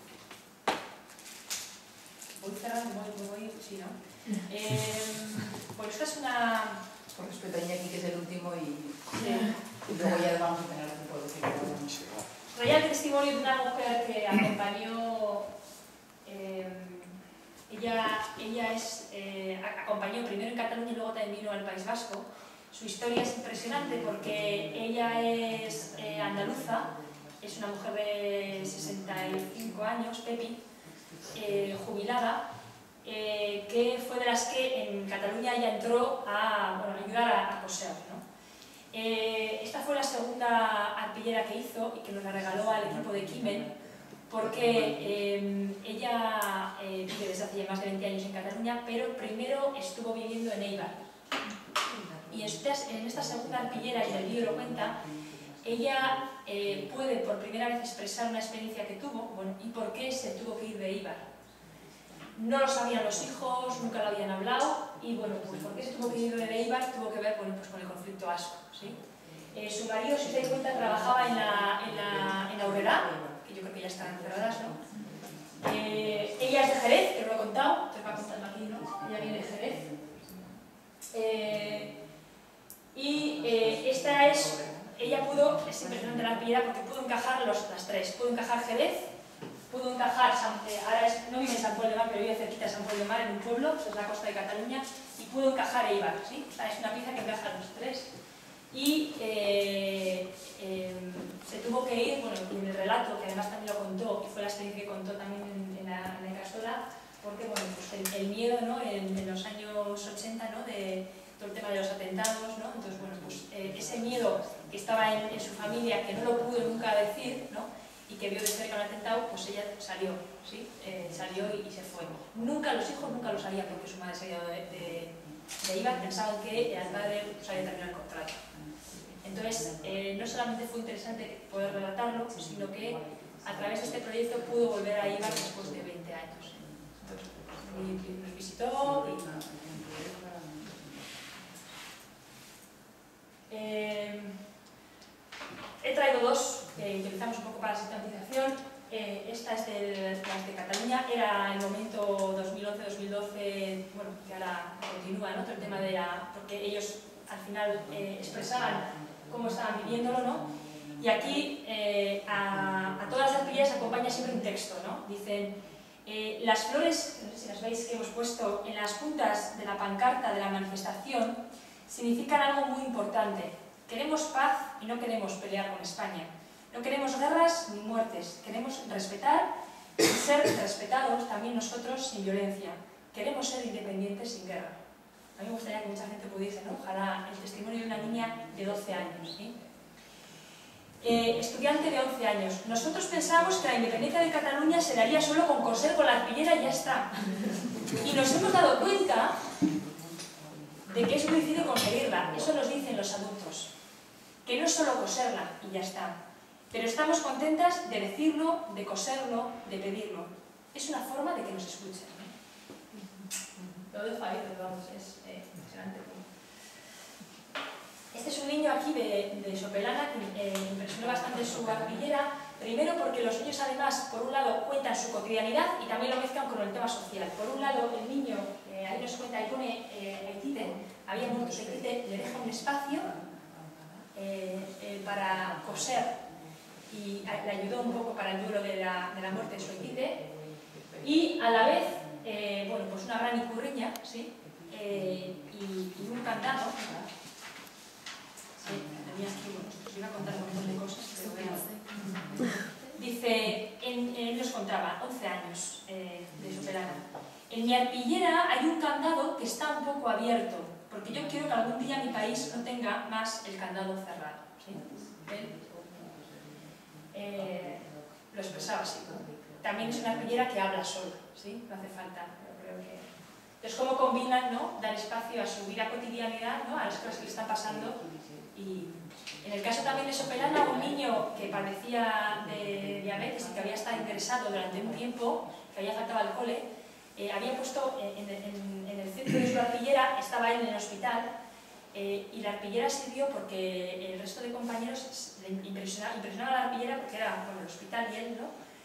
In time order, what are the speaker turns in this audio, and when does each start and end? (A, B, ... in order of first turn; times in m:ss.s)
0:02.3-0:06.8 A
0:07.1-0:12.2 B
0:09.1-0:09.6 A
0:12.5-0:15.5 A
0:16.2-0:17.2 A
0:17.7-0:30.6 A
0:23.9-0:27.5 B
0:28.5-0:29.8 B
0:30.8-0:31.8 B
0:31.3-0:32.4 A
0:33.0-0:38.2 A
0:38.9-0:43.7 A
0:42.3-0:45.1 B
0:44.3-0:51.1 A
0:51.9-0:56.0 B
0:52.3-0:55.0 A
0:55.6-1:01.2 A
1:02.3-1:09.0 A
1:03.3-1:04.1 B
1:05.6-1:06.5 B
1:09.2-1:09.5 B
1:09.5-1:14.8 A
1:10.2-1:16.8 B
1:15.6-1:19.8 A
1:18.3-1:20.6 B
1:21.1-1:21.9 A
1:21.5-1:22.0 B
1:22.9-1:29.1 A
1:23.4-1:26.3 B
1:29.7-1:38.1 A
1:38.7-2:08.4 A
1:52.9-1:57.3 B
2:00.8-2:02.4 B
2:04.7-2:07.8 B
2:08.5-2:10.5 B
2:09.2-2:19.2 A
2:11.2-2:21.6 B
2:23.5-2:24.4 A
2:25.8-2:40.4 A
2:37.9-2:41.4 B
2:41.0-3:04.8 A
2:42.6-2:44.2 B
3:05.4-3:09.5 A
3:11.0-3:17.3 A
3:12.9-3:14.0 B
3:14.9-3:17.0 B
3:17.7-3:18.9 B
3:17.8-3:19.4 A
3:19.5-3:22.6 B
3:20.8-3:23.7 A
3:24.4-3:26.2 A
3:26.7-3:32.3 A
3:33.6-3:36.2 A
3:38.1-3:53.1 A
3:51.2-3:54.1 B
3:54.1-3:56.2 A
3:54.8-3:58.2 B
3:56.9-4:00.2 A
3:59.3-4:02.2 B
4:01.0-4:07.1 A
4:04.5-4:05.4 B
4:08.6-4:25.5 A
4:08.6-4:09.5 B
4:10.6-4:10.9 B
4:11.6-4:12.6 B
4:21.2-4:22.4 B
4:24.7-4:30.4 B
4:27.1-4:33.1 A
4:33.6-4:38.0 A
4:36.8-4:41.6 B
4:38.5-4:46.6 A
4:42.4-4:45.0 B
4:47.2-4:51.3 A
4:51.9-4:58.5 A